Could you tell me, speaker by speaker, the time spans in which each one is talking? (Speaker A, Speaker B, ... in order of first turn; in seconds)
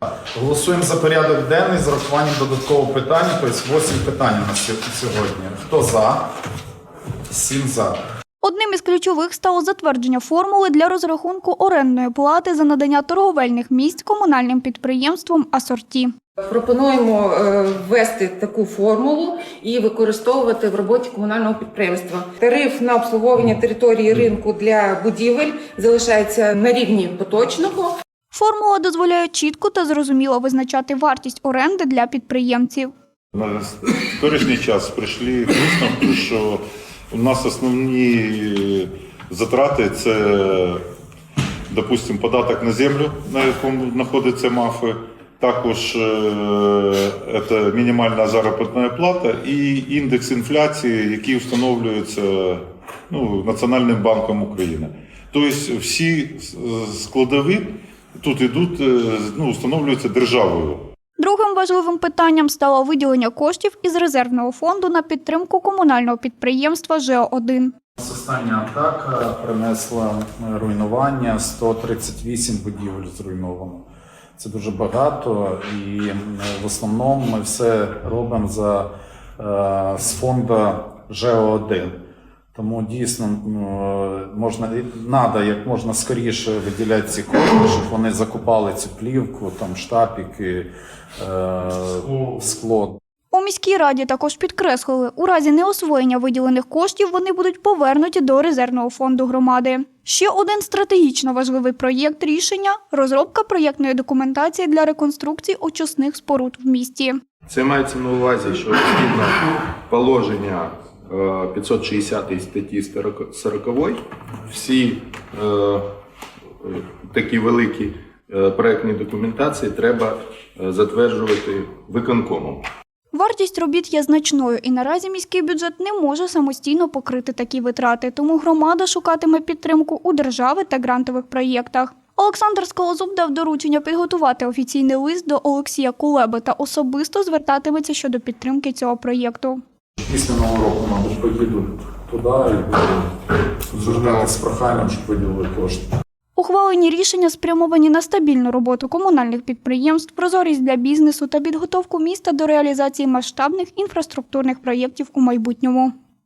Speaker A: 0.1-6.3, 7.3-8.0, 68.0-73.8, 74.4-82.0, 82.5-93.0, 140.0-143.2, 143.7-145.9
Speaker B: 8.4-16.1, 28.3-32.9, 61.2-67.7, 93.3-107.2, 123.1-139.6, 146.4-155.9
Speaker C: 16.4-27.9
Speaker D: 33.3-40.8, 41.7-60.9
Speaker E: 107.5-115.8, 116.6-122.7